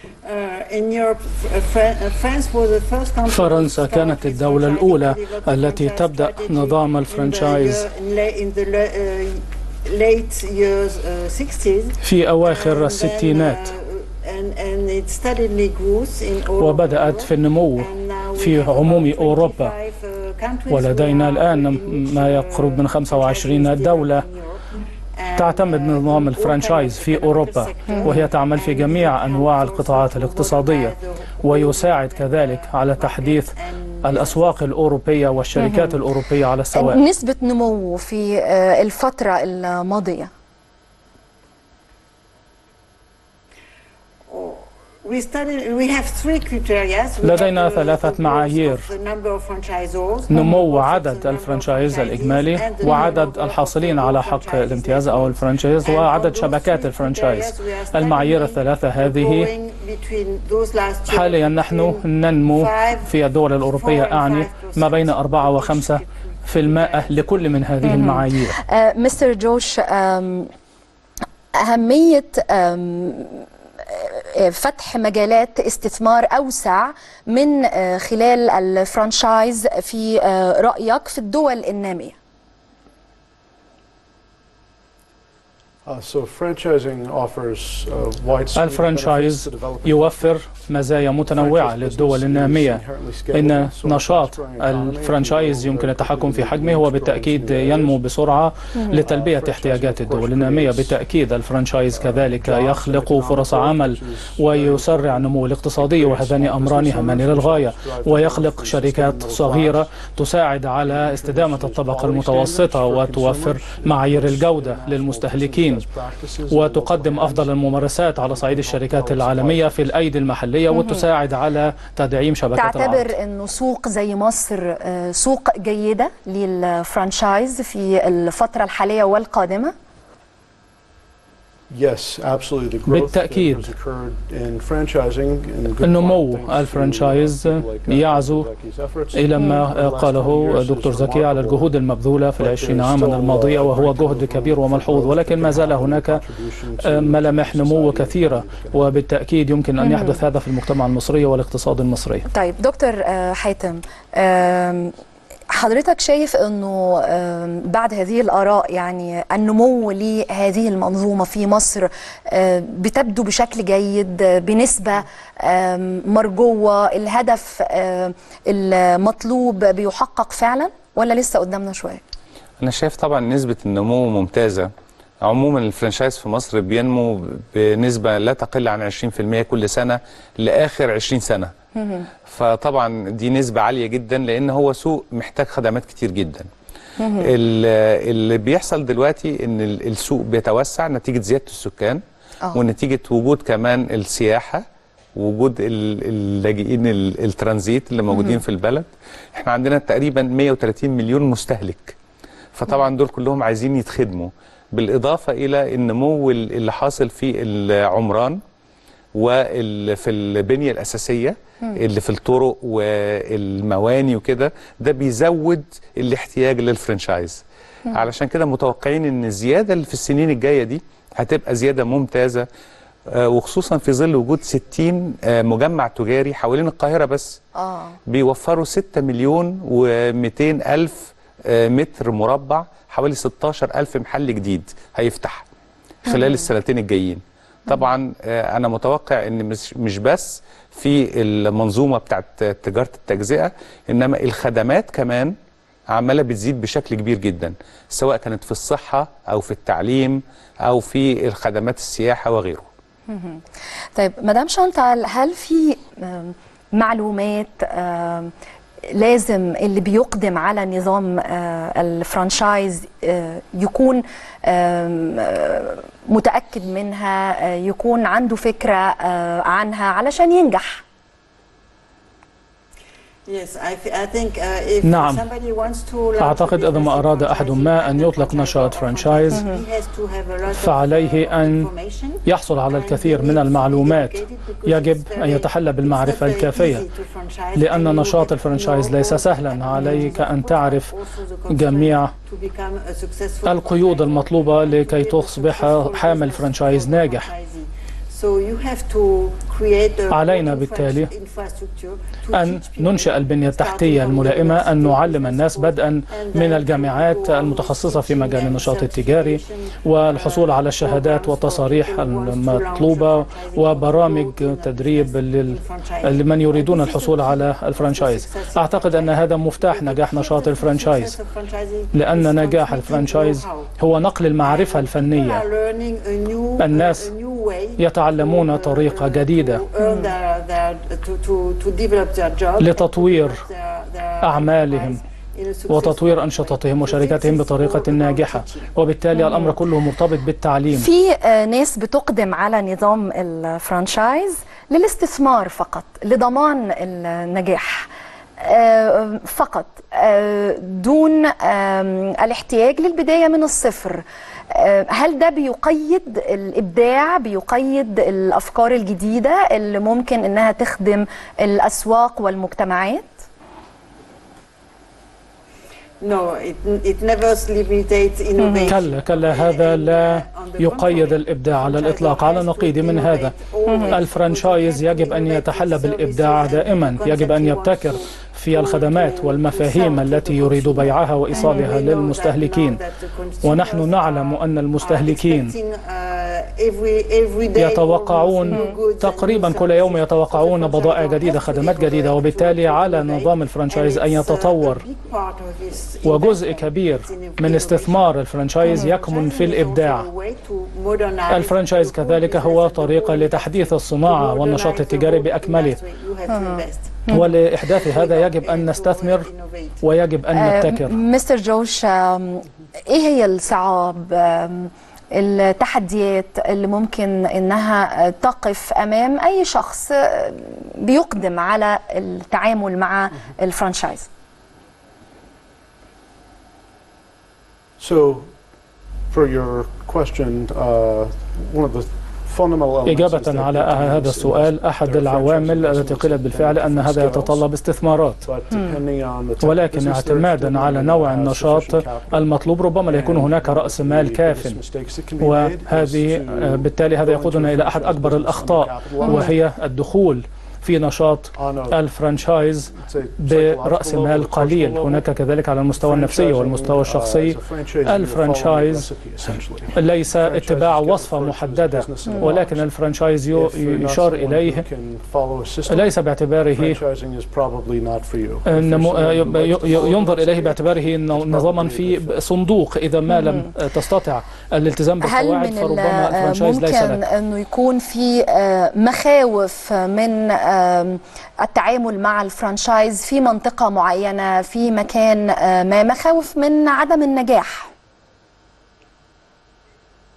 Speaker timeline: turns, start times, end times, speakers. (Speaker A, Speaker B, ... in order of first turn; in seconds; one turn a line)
Speaker A: 0.2-34.6
Speaker B: 3.3-7.9
Speaker B: 12.0-13.7
Speaker B: 16.6-19.7
Speaker B: 20.7-24.2
Speaker B: 25.4-33.5
Speaker B: 34.0-37.0
Speaker C: 35.6-36.0
Speaker C: 36.7-40.3
Speaker A: 44.3-67.4
Speaker B: 47.2-48.9
Speaker B: 50.3-59.5
Speaker B: 61.1-68.6
Speaker C: 67.8-70.5
Speaker C: 71.6-82.2
Speaker D: 85.9-90.7
Speaker B: 88.6-115.8
Speaker D: 91.2-98.0
Speaker D: 98.9-101.0
Speaker D: 101.9-110.1
Speaker D: 110.8-120.1
Speaker B: 116.5-123.1
Speaker C: 120.7-121.0
Speaker C: 122.5-129.7
Speaker D: 131.7-141.7
Speaker B: 132.9-133.7
Speaker B: 135.8-138.5
Speaker B: 139.1-146.2
Speaker C: 139.4-139.6
Speaker D: 142.4-149.1
Speaker B: 146.8-152.2
Speaker C: 149.8-150.2
Speaker C: 152.3-154.9
Speaker C: 155.5-172.0
Speaker E: 172.6-174.7
Speaker E: 175.2-181.5
Speaker C: 181.8-182.1
Speaker E: 182.3-186.5
Speaker C: 187.0-187.3
Speaker E: 187.2-192.0
Speaker E: 192.5-194.6
Speaker E: 195.2-202.0
Speaker C: 198.1-198.4
Speaker E: 202.6-208.4
Speaker E: 209.2-222.5
Speaker E: 223.1-227.4
Speaker C: 227.6-228.0
Speaker E: 228.1-235.4
Speaker E: 236.1-245.3
Speaker C: 236.1-236.5
Speaker E: 245.9-252.7
Speaker C: 253.1-253.4
Speaker C: 254.0-258.3
Speaker C: 258.9-270.8
Speaker A: 273.3-323.7
Speaker B: 274.8-275.2
Speaker B: 276.2-279.5
Speaker C: 279.3-279.6
Speaker B: 280.5-281.7
Speaker B: 282.2-286.8
Speaker B: 287.6-290.9
Speaker C: 289.8-290.1
Speaker B: 291.5-292.1
Speaker B: 293.4-297.3
Speaker B: 300.1-301.1
Speaker B: 302.3-321.2
Speaker B: 321.9-325.4
Speaker A: 324.4-338.9
Speaker B: 326.6-327.1
Speaker B: 327.8-329.6
Speaker C: 329.8-330.1
Speaker B: 332.6-333.4
Speaker B: 334.2-335.0
Speaker B: 335.7-340.9
Speaker C: 339.1-339.6
Speaker C: 340.7-347.9
Speaker C: 348.4-363.1
Speaker A: 366.0-409.8
Speaker C: 368.4-368.7
Speaker B: 368.7-373.3
Speaker C: 373.7-374.0
Speaker B: 373.9-382.8
Speaker C: 381.3-381.7
Speaker B: 383.4-385.6
Speaker B: 387.6-394.8
Speaker C: 388.5-388.8
Speaker B: 396.0-400.1
Speaker C: 398.6-398.9
Speaker B: 401.3-405.8
Speaker C: 406.3-407.3
Speaker B: 407.1-409.3
Speaker B: 409.8-411.0
Speaker C: 410.3-424.1
Speaker D: 427.8-428.3
Speaker D: 429.1-437.5
Speaker B: 432.9-438.2
Speaker D: 438.2-449.4
Speaker B: 439.4-444.6
Speaker B: 445.2-464.6
Speaker C: 449.0-449.3
Speaker D: 451.3-451.9
Speaker D: 452.7-455.1
Speaker D: 455.7-472.2
Speaker C: 462.1-462.4
Speaker B: 465.7-466.8
Speaker B: 468.5-477.0
Speaker C: 473.1-473.5
Speaker C: 475.0-487.7